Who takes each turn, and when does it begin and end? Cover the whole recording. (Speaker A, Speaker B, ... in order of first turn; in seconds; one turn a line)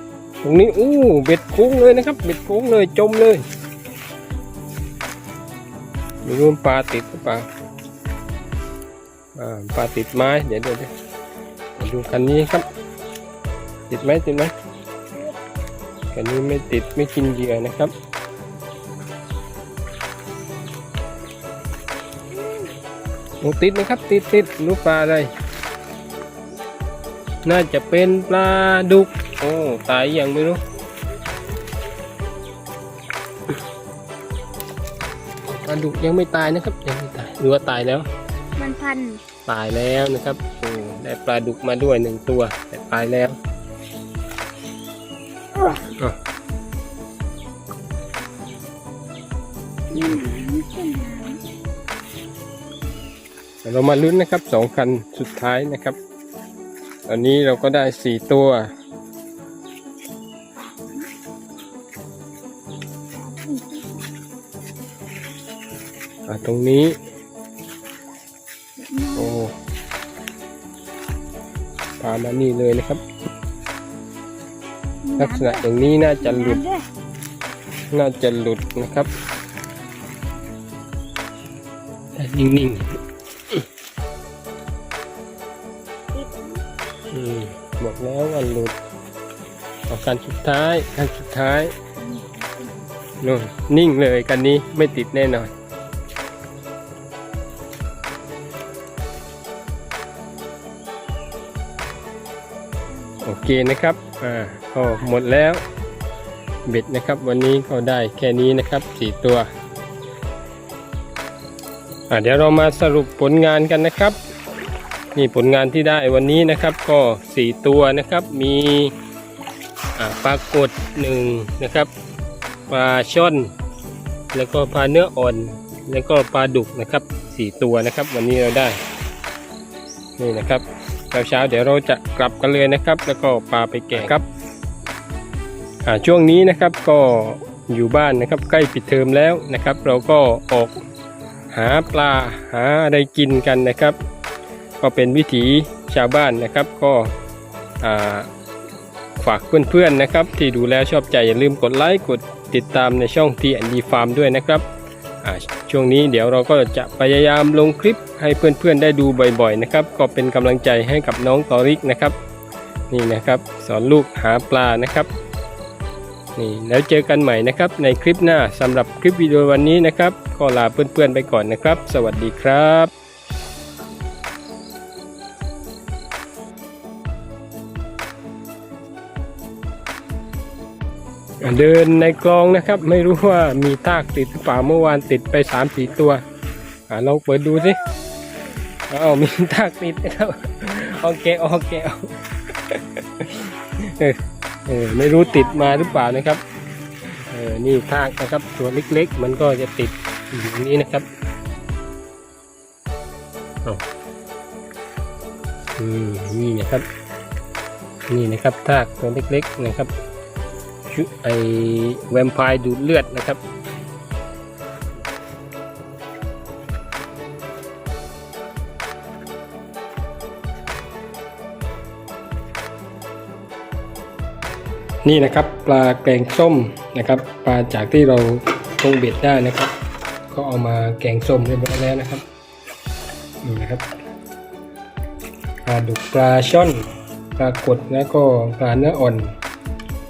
Speaker A: 0.4-3.4
Speaker A: 6.2-7.5
Speaker A: 9.3-10.9
Speaker A: 11.8-12.7
Speaker A: 13.9-14.5
Speaker A: 16.1-17.9
Speaker B: 22.3-22.7
Speaker A: 23.4-25.3
Speaker A: 27.4-30.6
Speaker A: 35.5-38.1
Speaker B: 38.6-39.2
Speaker A: 39.5-43.4
Speaker A: 45.6-46.2
Speaker B: 49.9-51.4
Speaker A: 49.9-50.3
Speaker A: 53.6-56.0
Speaker A: 57.1-58.7
Speaker B: 63.2-64.1
Speaker A: 66.3-66.9
Speaker B: 68.8-69.4
Speaker A: 69.1-69.5
Speaker A: 72.0-73.0
Speaker B: 75.0-75.6
Speaker A: 75.2-76.6
Speaker B: 76.2-76.8
Speaker A: 77.9-79.1
Speaker A: 82.2-83.0
Speaker B: 86.1-86.6
Speaker A: 87.1-88.7
Speaker A: 89.9-91.7
Speaker B: 92.0-92.9
Speaker A: 93.2-95.5
Speaker B: 102.9-103.3
Speaker A: 103.2-105.6
Speaker A: 106.7-109.5
Speaker A: 112.1-114.2
Speaker A: 115.1-118.9
Speaker A: 120.0-121.9
Speaker A: 122.7-123.5
Speaker A: 124.3-128.8
Speaker A: 130.2-134.2
Speaker A: 135.8-140.8
Speaker A: 141.5-143.9
Speaker A: 144.8-147.1
Speaker A: 147.8-148.3
Speaker A: 149.2-154.6
Speaker A: 155.2-162.1
Speaker A: 162.9-165.1
Speaker A: 166.3-172.9
Speaker A: 181.4-186.2
Speaker A: 186.9-187.8
Speaker B: 187.7-188.7
Speaker A: 188.9-192.1
Speaker A: 192.7-196.4
Speaker B: 195.4-195.8
Speaker A: 197.2-201.1
Speaker A: 205.8-206.8
Speaker A: 208.1-209.9
Speaker A: 210.9-213.4
Speaker A: 225.0-229.7
Speaker A: 230.3-232.2
Speaker A: 233.4-233.8
Speaker A: 235.7-236.8
Speaker A: 237.4-239.3